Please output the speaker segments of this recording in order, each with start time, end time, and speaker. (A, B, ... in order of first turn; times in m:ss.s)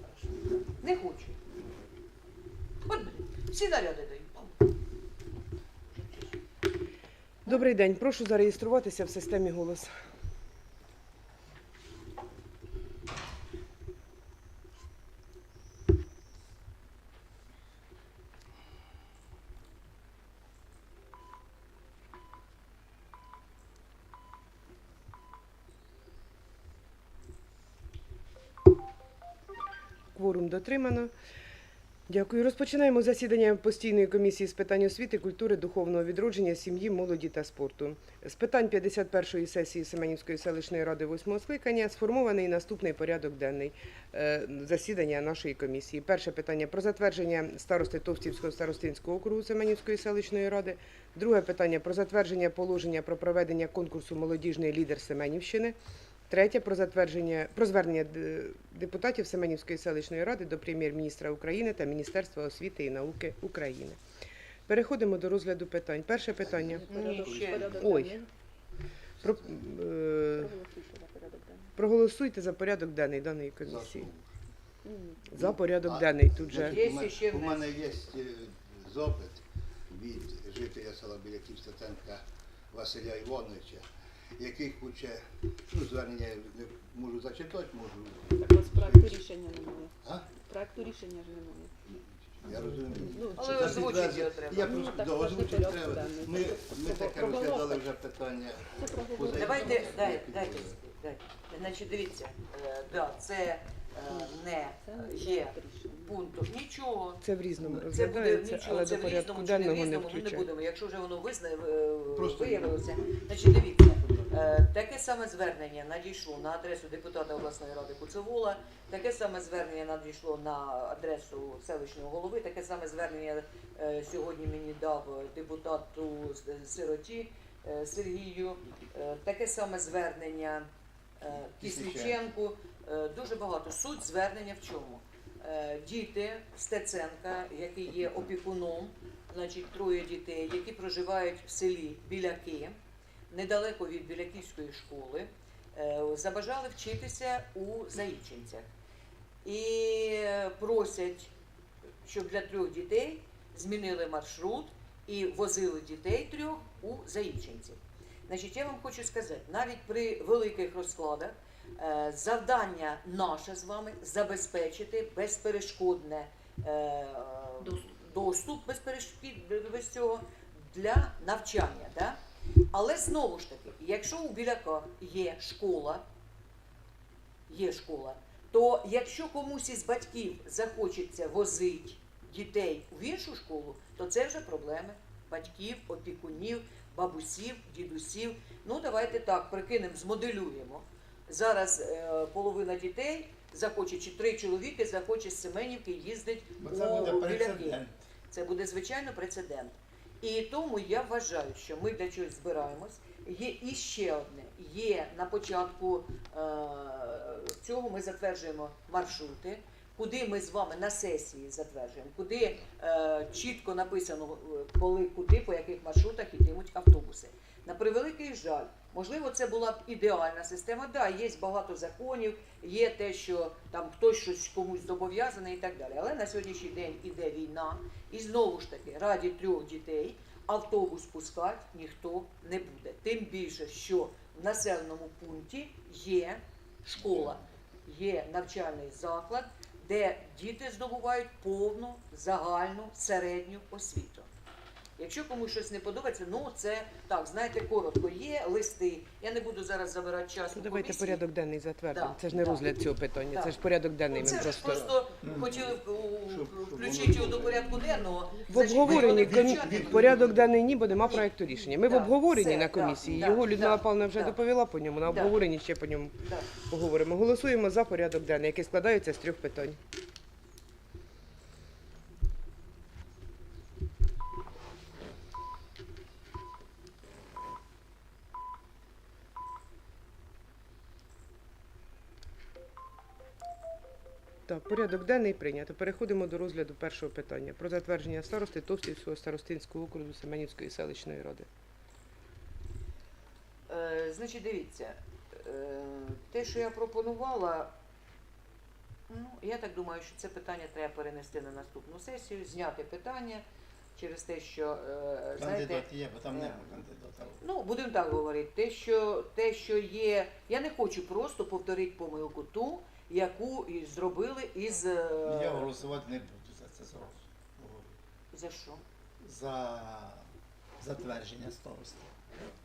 0:00.8-0:01.4 A
0:02.8-0:04.6 A
0:07.4-0:10.0 B
0:30.1-0:31.1 B
0:32.1-0:55.8 B
0:56.3-1:04.0 B
1:04.7-1:06.9 B
1:06.4-1:08.1 C
1:06.7-1:08.3 D
1:06.9-1:07.7 A
1:07.8-1:08.2 B
1:09.2-1:09.6 C
1:09.2-1:10.5 B
1:10.3-1:11.7 D
1:11.8-1:14.1 B
1:13.6-1:14.4 C
1:14.8-1:15.2 D
1:15.3-1:16.8 B
1:15.3-1:29.2 C
1:16.6-1:17.8 A
1:28.4-1:31.8 D
1:30.0-1:30.3 C
1:31.9-1:40.8 C
1:32.4-1:38.0 D
1:33.4-1:34.7 A
1:38.7-1:40.1 D
1:39.3-2:10.7 A
1:44.0-1:46.3 D
1:47.2-1:50.5 B
1:52.1-1:54.6 C
2:11.2-2:22.8 A
2:11.5-2:12.2 C
2:23.3-2:28.7 A
2:29.4-2:31.3 A
2:32.0-2:52.2 A
2:52.7-2:56.0 A
2:57.5-4:04.3 A
3:16.6-3:18.0 E
3:57.0-3:57.4 C
4:05.0-4:11.3 A
4:10.5-4:14.9 B
4:11.9-4:12.6 A
4:13.3-4:13.6 A
4:14.1-4:20.3 A
4:15.2-4:15.7 E
4:15.4-4:15.6 C
4:16.3-4:20.8 C
4:16.4-4:17.6 E
4:18.5-4:29.8 B
4:21.0-4:21.3 A
4:21.8-4:24.4 A
4:25.0-4:25.4 A
4:26.2-4:26.5 A
4:44.5-4:51.5 B
4:53.7-4:57.8 A
4:59.1-5:03.4 A
5:04.0-5:06.8 A
5:05.4-5:07.4 E
5:07.4-5:15.8 A
5:15.2-5:17.9 E
5:18.3-5:18.8 A
5:19.2-5:20.3 E
5:20.8-5:22.1 E